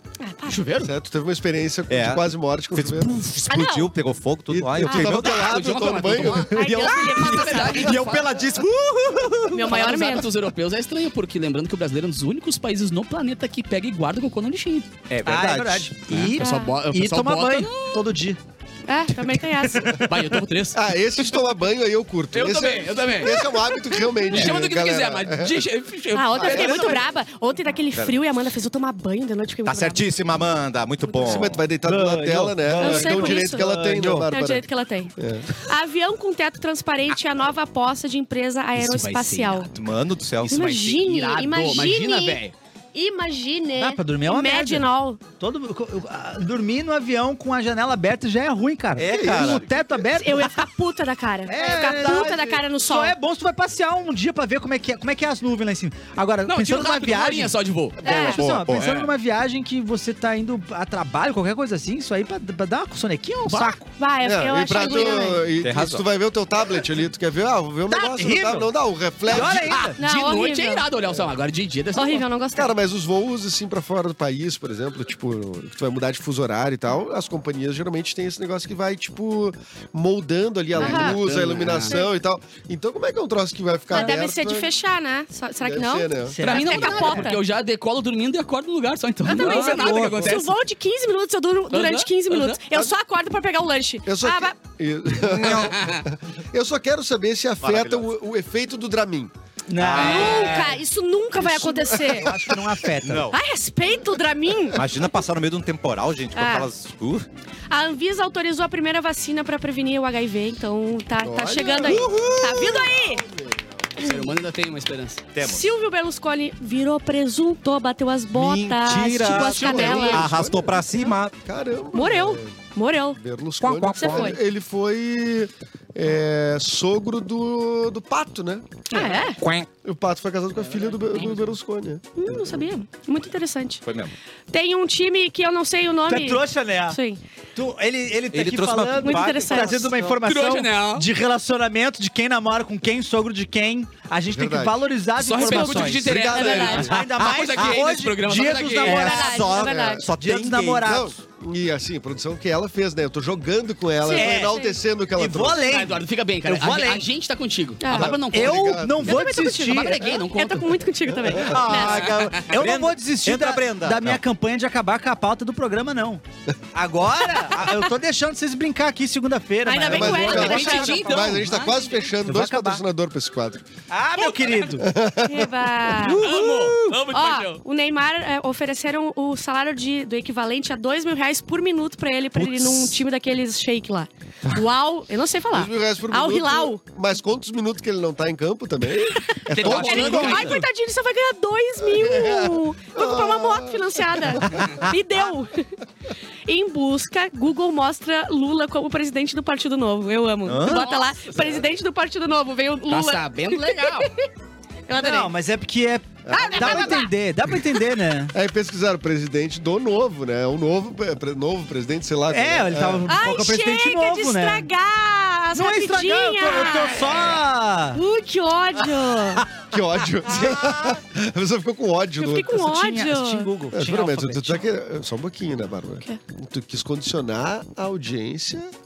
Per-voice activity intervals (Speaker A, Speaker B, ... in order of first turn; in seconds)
Speaker A: 0.2-0.7, 3.5-3.9, 4.8-5.2, 6.4-8.0, 9.5-10.3, 16.4-16.8, 18.9-20.1, 26.1-30.0, 31.1-31.5, 32.8-33.7, 34.3-39.7, 40.4-42.4, 42.9-45.2, 50.1-53.1, 58.0-58.4, 64.0-65.5, 70.0-70.9, 72.0-72.7, 80.8-81.2, 83.9-87.4, 89.3-94.6, 99.9-102.3, 103.3-104.8, 106.3-106.7, 107.7-113.2, 115.4-120.3, 121.9-123.2, 124.0-124.4, 128.9-129.4, 132.2-133.8, 134.5-137.2, 139.0-139.9, 145.4-146.9, 148.7-150.1, 154.0-154.8, 157.8-158.2, 159.0-162.2, 169.7-171.2, 175.2-176.4, 177.1-186.8, 189.2-195.7, 196.5-204.3, 204.9-205.3, 206.3-207.1, 213.1-217.4, 217.9-219.5, 222.2-223.5
Speaker B: 0.5-0.9, 5.0-8.3, 9.6-14.9, 16.1-18.0, 19.9-20.9, 22.3-23.5, 24.2-27.0, 38.8-39.7, 40.5-42.5, 56.5-59.1, 63.5-63.8, 69.7-72.3, 80.8-82.0, 86.4-90.5, 91.7-92.6, 95.5-96.0, 100.0-100.4, 114.0-115.2, 119.4-120.2, 130.6-131.5, 140.2-141.1, 145.2-149.2, 155.6-158.7, 159.6-160.8, 170.1-172.1, 176.1-177.6, 189.5-190.6, 200.7-201.0, 202.9-204.1
Speaker C: 0.8-3.1, 4.5-6.8, 20.7-25.6, 26.3-27.1, 31.2-35.5, 49.1-49.7, 64.2-69.9, 72.5-84.7, 85.6-86.4, 94.1-99.3, 101.4-102.5, 111.2-114.0, 119.2-122.6, 123.1-129.0, 129.8-132.6, 144.3-144.8, 145.9-146.9, 149.5-150.1, 150.8-155.7, 157.9-159.2, 161.2-161.6, 169.9-173.6, 174.8-175.5, 185.5-190.6, 191.9-194.9, 206.3-207.0, 208.3-213.1, 219.6-222.6, 223.7-228.7
Speaker D: 1.9-5.6, 6.7-7.2, 7.8-8.7, 15.1-15.9, 29.7-31.6, 39.7-40.8, 49.0-49.6, 58.4-58.9, 65.6-66.1, 89.4-90.4, 95.2-95.9, 97.6-98.1, 99.8-100.5, 103.0-103.4, 104.7-107.3, 111.8-112.8, 115.3-115.7, 118.3-121.3, 123.6-124.4, 129.4-129.7, 133.8-134.1, 138.3-140.2, 147.0-147.8, 148.8-150.9, 161.4-164.2, 182.4-182.9, 200.4-200.9, 220.3-221.0
Speaker E: 7.8-9.9, 15.2-18.4, 31.8-34.3, 43.8-50.6, 51.5-63.9, 67.9-68.7, 69.3-70.0, 86.3-87.3, 99.7-100.8, 102.0-103.3, 136.1-137.0, 137.6-149.5, 150.2-151.2, 154.1-154.6, 155.2-157.1, 157.9-160.1, 162.4-166.2, 166.7-171.4, 172.2-172.8, 173.9-174.9, 176.0-177.0, 189.9-190.3, 205.0-208.3, 212.3-214.7, 215.5-218.0, 222.5-224.7